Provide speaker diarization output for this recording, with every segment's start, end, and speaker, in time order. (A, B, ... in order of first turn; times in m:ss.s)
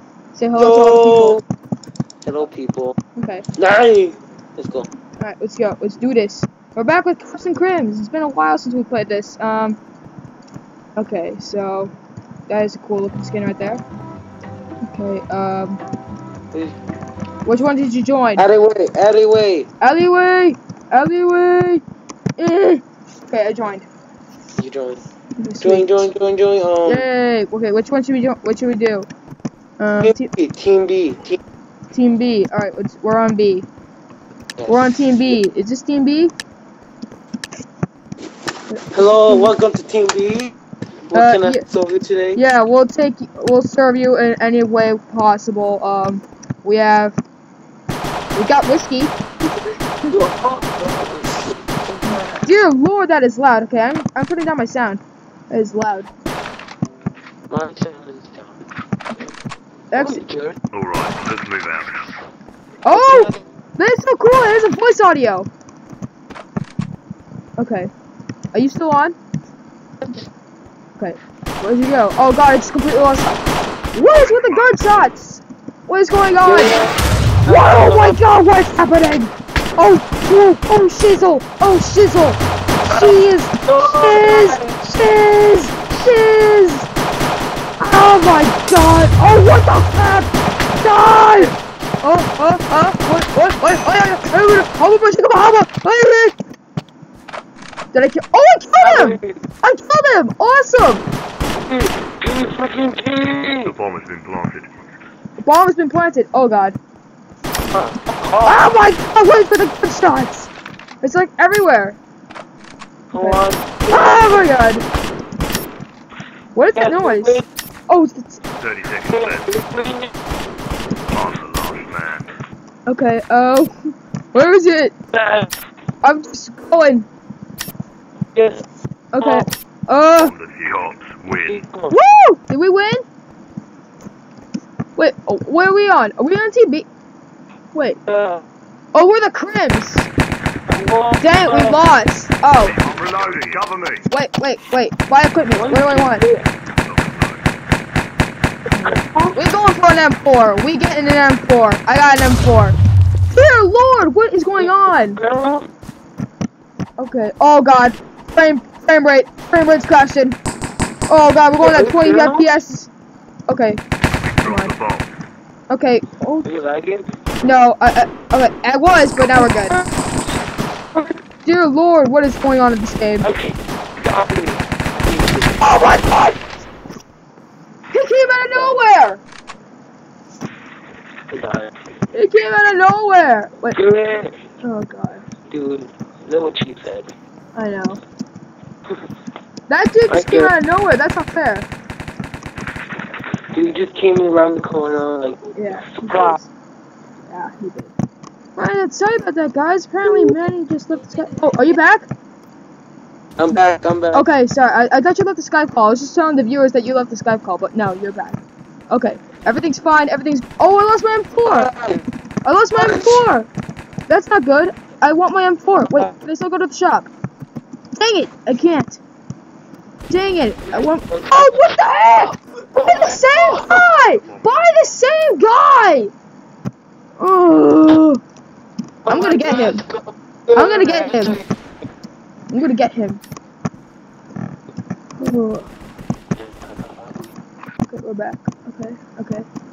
0:00.3-0:01.4 A
0:00.5-0:01.4 B
0:02.2-0:03.0 B
0:03.2-0:03.4 A
0:03.6-0:04.9 B
0:05.2-0:09.8 A
0:11.0-0:11.9 A
0:12.5-0:13.8 A
0:14.8-0:15.8 A
0:17.4-0:18.4 A
0:18.4-0:19.7 B
0:19.8-0:21.8 A
0:22.4-0:23.9 A
0:24.6-0:25.0 B
0:25.4-0:26.0 A
0:25.6-0:27.0 B
0:26.8-0:29.1 A
0:29.8-0:30.3 A
0:30.0-0:31.4 B
0:31.9-0:33.7 A
0:34.6-0:35.4 B
0:34.7-0:36.3 A
0:38.7-0:39.5 A
0:38.9-0:40.5 B
0:41.1-0:42.4 B
0:41.1-0:41.6 A
0:42.4-0:47.2 A
0:48.3-0:49.2 A
0:50.1-0:52.4 B
0:52.1-0:56.1 A
0:57.5-0:58.6 B
0:59.9-1:00.2 A
0:59.9-1:00.6 B
1:00.7-1:02.0 C
1:02.8-1:05.5 A
1:02.9-1:03.4 B
1:07.6-1:07.9 A
1:08.5-1:09.2 A
1:11.0-1:13.4 A
1:13.9-1:16.8 A
1:14.1-1:15.0 C
1:16.4-1:16.9 B
1:17.4-1:18.2 B
1:17.5-1:26.9 A
1:22.9-1:24.8 B
1:27.8-1:30.3 A
1:30.8-1:31.5 A
1:32.0-1:36.3 A
1:37.9-1:41.0 A
1:38.8-1:39.4 B
1:41.6-1:43.7 B
1:43.6-1:44.7 C
1:45.4-1:46.8 A
1:47.7-1:48.7 B
1:48.4-1:50.5 A
1:51.0-1:52.0 A
1:53.1-1:54.5 B
1:53.2-1:54.8 A
1:56.5-1:58.4 A
1:56.7-1:57.4 B
1:58.6-1:59.5 C
1:59.1-2:00.1 B
2:01.1-2:02.3 C
2:02.9-2:03.7 A
2:04.3-2:04.9 A
2:05.1-2:05.5 B
2:06.0-2:07.1 A
2:08.3-2:08.6 B
2:09.1-2:10.3 A
2:09.2-2:09.5 B
2:10.2-2:11.6 C
2:11.4-2:12.0 B
2:11.9-2:13.0 A
2:15.0-2:16.9 A
2:17.7-2:18.0 A
2:18.1-2:18.4 B
2:18.9-2:20.1 A
2:20.7-2:21.8 B
2:21.2-2:22.7 A
2:22.7-2:24.0 C
2:24.1-2:26.2 A
2:25.5-2:26.5 B
2:26.8-2:27.4 C
2:28.7-2:32.8 A
2:28.8-2:29.4 B
2:33.3-2:35.2 A
2:34.6-2:35.7 B
2:37.0-2:40.4 A
2:41.1-2:42.9 A
2:41.6-2:42.5 B
2:43.5-2:43.8 A
2:44.3-2:45.1 C
2:44.4-2:44.7 A
2:45.7-2:46.5 A
2:46.4-2:47.0 B
2:47.4-2:49.8 A
2:49.3-2:49.9 B
2:51.4-2:53.3 A
2:53.2-2:56.3 B
2:55.7-2:56.1 A
2:57.9-2:59.2 A
2:58.5-2:58.8 B
3:01.3-3:01.7 B
3:02.1-3:03.8 A
3:03.7-3:04.3 B
3:04.6-3:05.2 A
3:05.5-3:07.1 B
3:07.5-3:08.0 A
3:09.7-3:11.7 A
3:10.1-3:10.5 B
3:13.5-3:16.4 B
3:15.5-3:16.5 A
3:17.3-3:17.9 A
3:18.6-3:22.1 A
3:23.4-3:24.2 B
3:23.5-3:31.7 A
3:31.4-3:32.0 B
3:32.4-3:33.5 A
3:32.7-3:33.2 B
3:34.1-3:37.1 A
3:35.8-3:36.1 B
3:38.0-3:39.0 A
3:40.1-3:46.1 A
3:40.7-3:41.3 B
3:42.7-3:43.8 B
3:44.2-3:44.5 C
3:47.2-3:48.2 A
3:49.0-3:51.5 B
3:49.1-3:49.8 A
3:50.5-3:51.4 A
3:52.5-3:53.2 A
3:55.2-3:55.7 A
3:56.4-3:57.3 B
3:57.9-3:59.4 A